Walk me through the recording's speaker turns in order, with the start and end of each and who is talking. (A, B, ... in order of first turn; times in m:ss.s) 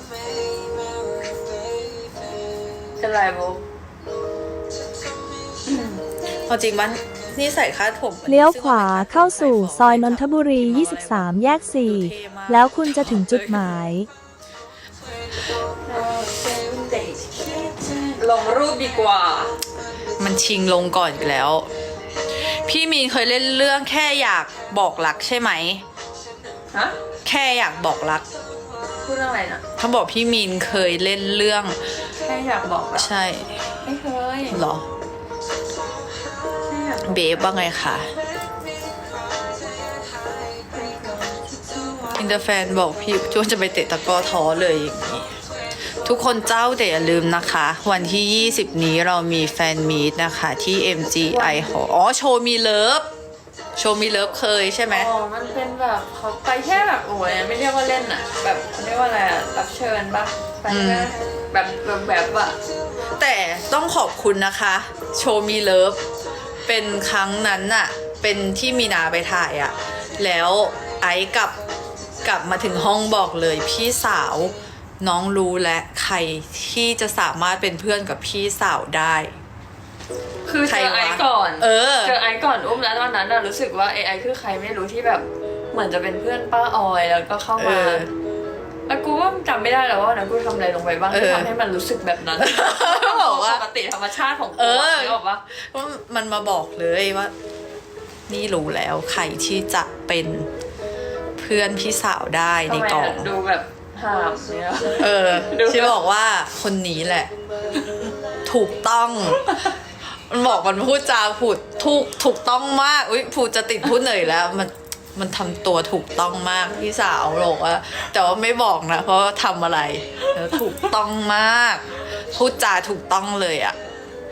0:03.0-0:03.6 A
0:05.7-0:06.0 A
0:06.5-0:13.8 B
0:08.3-0:14.1 C
0:15.9-0:19.5 A
0:20.2-0:21.7 B
0:22.3-0:25.8 B
0:27.2-0:28.3 B
0:29.0-0:29.6 A
0:29.8-0:31.8 B
0:32.2-0:33.1 A
0:33.0-0:33.7 B
0:33.8-0:34.6 A
0:34.5-0:34.9 B
0:36.7-0:37.6 A
0:37.0-0:38.1 B
0:40.7-0:42.4 A
0:42.2-0:45.3 B
0:46.0-0:53.1 B
0:51.3-0:51.8 A
0:53.8-0:55.1 B
0:54.9-1:02.6 A
1:00.7-1:01.1 B
1:03.2-1:06.0 B
1:06.7-1:11.6 B
1:12.2-1:19.4 B
1:20.5-1:28.1 A
1:20.7-1:22.2 B
1:27.6-1:28.1 B
1:28.9-1:35.4 A
1:31.1-1:31.5 B
1:32.4-1:33.6 B
1:34.6-1:37.3 B
1:38.3-1:40.5 B
1:41.4-1:43.3 B
1:42.7-1:46.0 A
1:45.0-1:47.3 B
1:48.5-1:49.6 B
1:50.3-2:03.8 B